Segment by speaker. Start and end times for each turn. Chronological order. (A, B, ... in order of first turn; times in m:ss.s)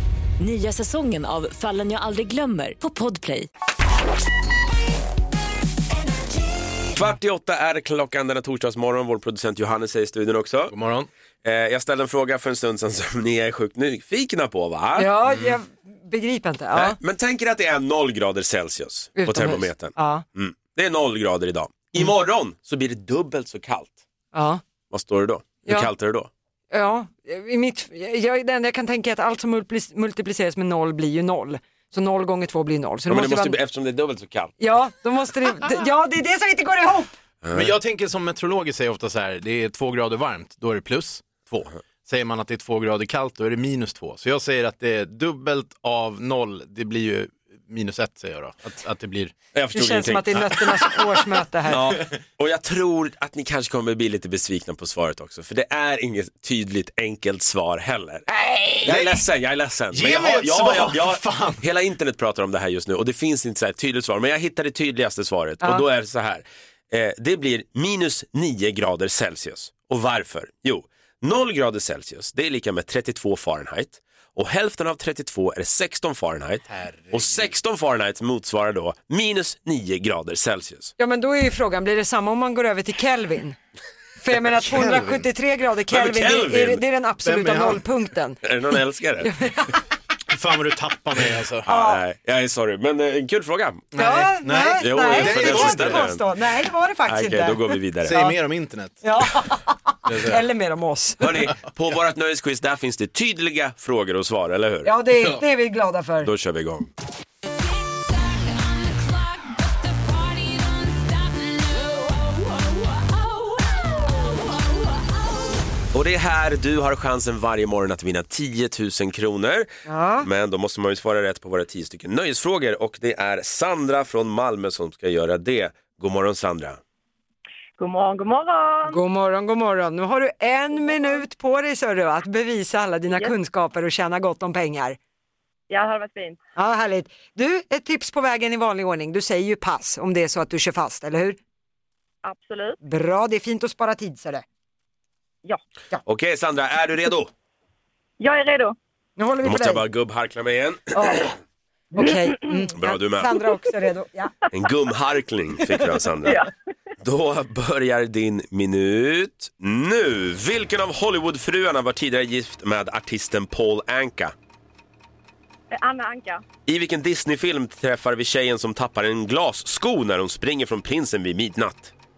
0:00.4-0:03.5 A
0:06.9-0:10.7 B
0:10.7-0:11.1 C
0:11.4-0:15.2 B
0:15.0-0:17.0 D
0:16.7-0:24.0 B
0:19.2-0:20.2 D
0:24.3-0:24.6 D
0:24.9-0:26.3 B
0:26.7-0:33.6 D
0:33.1-0:34.6 B
0:34.6-0:37.1 D
0:37.4-0:37.8 B
0:37.5-0:49.4 C
0:49.5-0:50.7 B
0:49.7-0:51.9 D
0:51.7-0:58.3 B
0:58.8-0:59.2 C
0:58.8-1:20.9 B
0:59.9-1:01.6 C
1:16.8-1:17.5 C
1:21.0-1:23.6 D
1:24.2-1:28.4 D
1:24.5-1:25.3 C
1:25.9-1:26.8 B
1:27.2-1:27.8 C
1:28.4-1:29.3 B
1:29.2-1:29.8 D
1:30.3-1:31.7 C
1:31.7-1:32.0 D
1:31.7-1:33.9 B
1:33.9-1:36.1 C
1:34.0-1:38.4 D
1:34.8-1:36.2 B
1:37.1-1:38.2 B
1:38.0-1:39.1 C
1:39.0-1:41.5 D
1:40.1-1:40.4 C
1:41.2-1:44.9 B
1:44.8-1:46.3 D
1:46.2-1:46.9 B
1:55.9-1:59.7 B
1:59.9-2:00.3 D
2:00.2-2:06.8 B
2:07.8-2:09.0 E
2:08.9-2:15.0 D
2:15.7-2:16.4 E
2:16.6-2:21.4 D
2:22.2-2:22.8 E
2:22.8-2:24.4 D
2:26.0-2:27.3 B
2:28.2-2:28.8 E
2:29.2-2:29.8 D
2:29.4-2:31.3 B
2:30.9-2:31.3 D
2:31.9-2:34.3 D
2:32.8-2:33.4 B
2:34.5-2:36.4 B
2:37.0-2:44.3 B
2:45.7-2:46.4 E
2:46.7-2:51.9 B